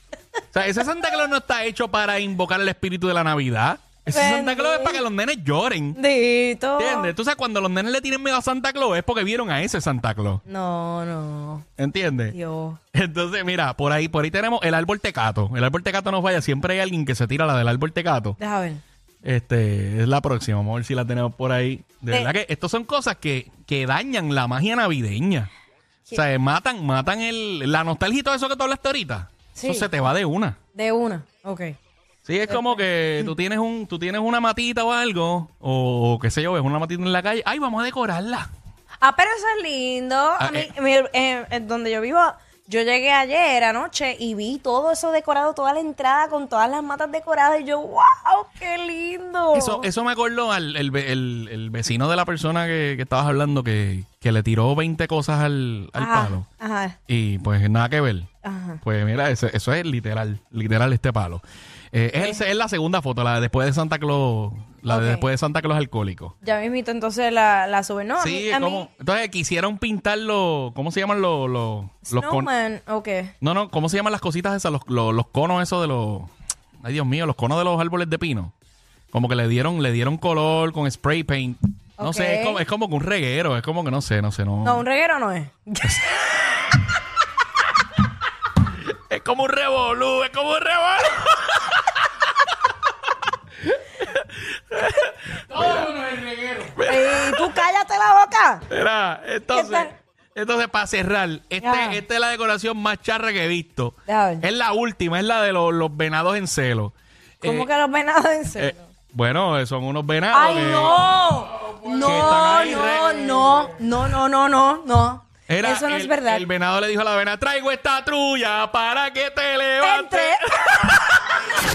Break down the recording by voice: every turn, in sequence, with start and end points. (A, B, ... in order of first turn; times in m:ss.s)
0:00.5-0:06.0 A
0:04.1-0:05.0 B
0:05.9-0:07.1 B
0:06.8-0:10.4 A
0:10.4-0:11.6 B
0:11.8-0:12.4 A
0:12.3-0:12.8 B
0:12.9-0:18.4 A
0:18.4-0:18.8 B
0:19.2-0:25.5 A
0:26.1-0:30.6 A
0:29.5-0:29.9 B
0:30.7-0:31.8 B
0:32.2-0:38.5 A
0:39.0-0:49.9 B
0:40.4-0:40.7 A
0:49.5-0:56.5 A
0:56.0-0:57.0 B
0:57.1-0:58.3 A
0:58.4-0:58.8 B
0:58.8-1:01.4 A
1:01.9-1:06.3 A
1:04.9-1:05.3 B
1:06.4-1:08.9 B
1:08.2-1:12.5 A
1:12.1-1:13.3 B
1:13.4-1:16.3 A
1:16.8-1:18.5 A
1:19.1-1:24.8 A
1:22.0-1:22.6 B
1:24.6-1:26.2 B
1:25.9-1:26.2 A
1:28.7-1:32.1 A
1:33.7-1:37.5 A
1:36.8-1:38.6 B
1:38.7-1:47.7 A
1:39.5-1:39.9 B
1:41.6-1:42.0 B
1:44.1-1:44.5 B
1:47.4-1:48.9 B
1:48.6-1:51.0 A
1:50.3-1:56.4 B
1:52.0-1:53.3 A
1:55.5-2:01.3 A
1:59.8-2:00.9 B